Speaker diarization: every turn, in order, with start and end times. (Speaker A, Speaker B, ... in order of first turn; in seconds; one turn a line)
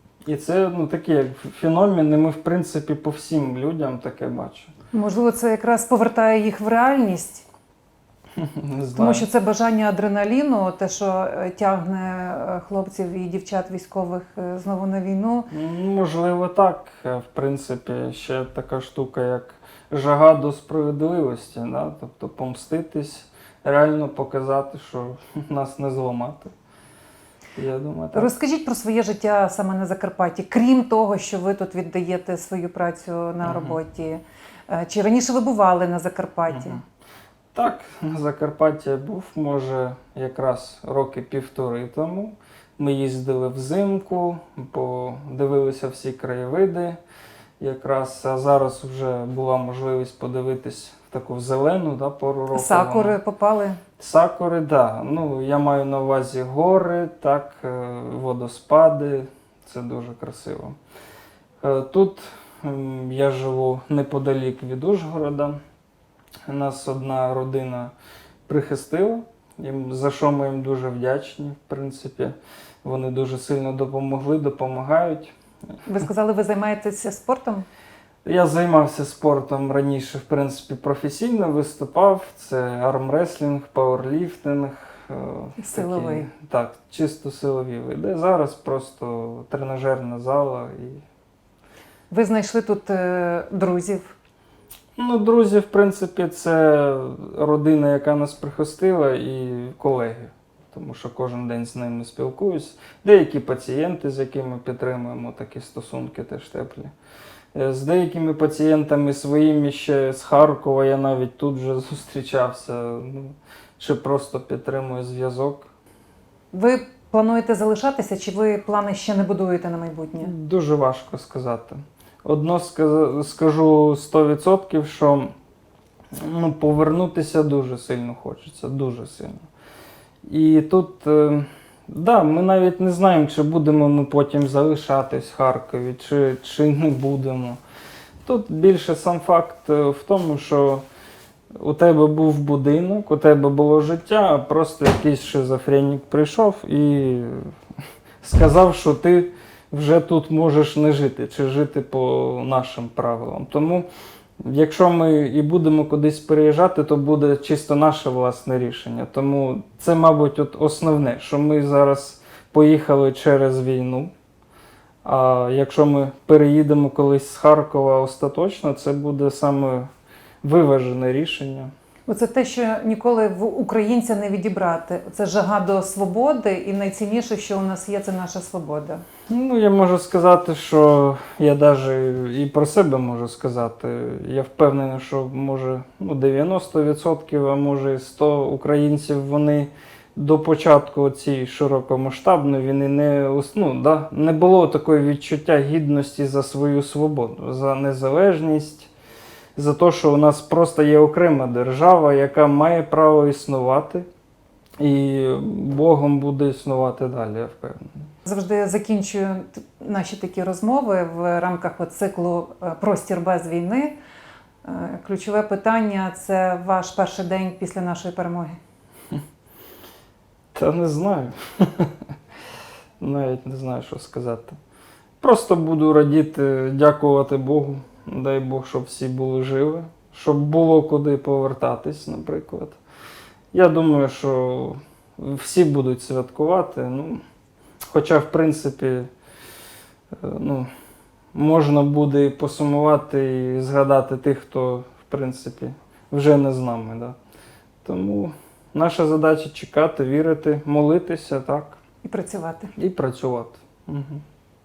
Speaker A: 0.3-4.7
Speaker B: 4.9-7.4
Speaker A: 8.4-9.3
Speaker B: 8.9-15.5
Speaker A: 15.5-26.5
Speaker A: 27.6-28.3
Speaker B: 28.1-36.8
Speaker A: 33.4-33.8
Speaker A: 37.5-47.0
Speaker A: 47.6-53.2
Speaker B: 52.5-53.8
Speaker A: 54.0-60.8
Speaker A: 61.6-65.6
Speaker A: 66.5-67.9
Speaker A: 68.5-75.3
Speaker B: 75.9-77.7
Speaker A: 78.2-91.0
Speaker B: 85.6-86.3
Speaker B: 92.1-94.1
Speaker A: 95.0-106.9
Speaker A: 107.5-115.7
Speaker B: 116.5-120.3
Speaker A: 120.2-125.3
Speaker A: 126.1-129.4
Speaker A: 130.2-137.6
Speaker A: 138.2-140.8
Speaker A: 141.6-147.5
Speaker A: 148.2-153.9
Speaker A: 154.4-164.1
Speaker A: 165.0-169.9
Speaker A: 170.4-171.7
Speaker B: 172.1-179.0
Speaker A: 179.3-198.9
Speaker A: 199.6-204.1
Speaker A: 204.8-207.9
Speaker B: 208.3-213.9
Speaker B: 214.6-218.6
Speaker A: 220.5-221.9
Speaker A: 223.0-224.6
Speaker A: 225.2-232.8
Speaker A: 233.5-237.2
Speaker A: 237.9-239.1
Speaker A: 240.2-240.7
Speaker A: 241.3-247.2
Speaker A: 247.8-251.8
Speaker B: 252.0-252.7
Speaker A: 252.8-254.2